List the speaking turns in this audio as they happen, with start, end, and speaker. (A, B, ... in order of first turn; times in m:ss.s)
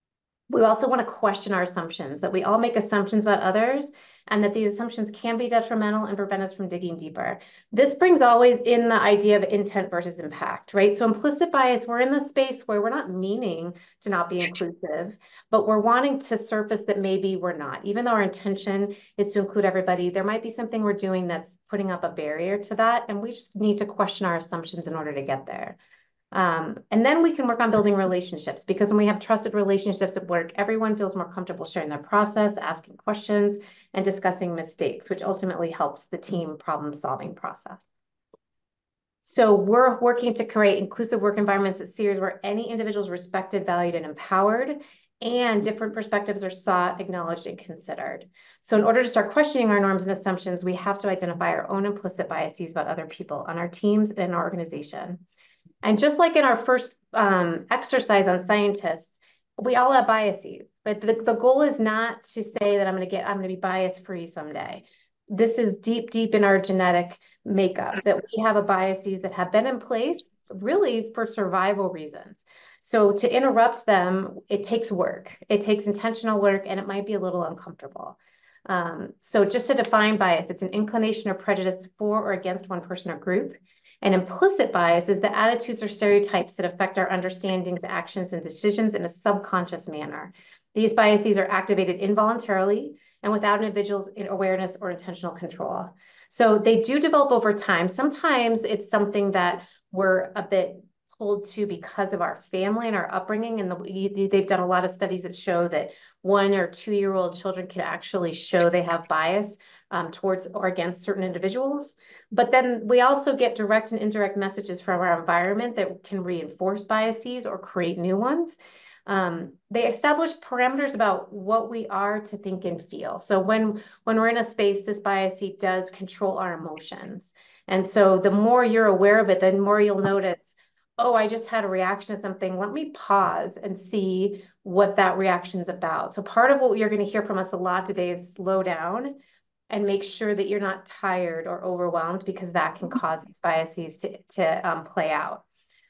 0:00.5-0:25.8 A
0:26.3-0:37.9 A
0:39.2-0:55.2 A
0:55.8-1:18.2 A
1:18.7-2:19.2 A
2:19.7-2:25.4 A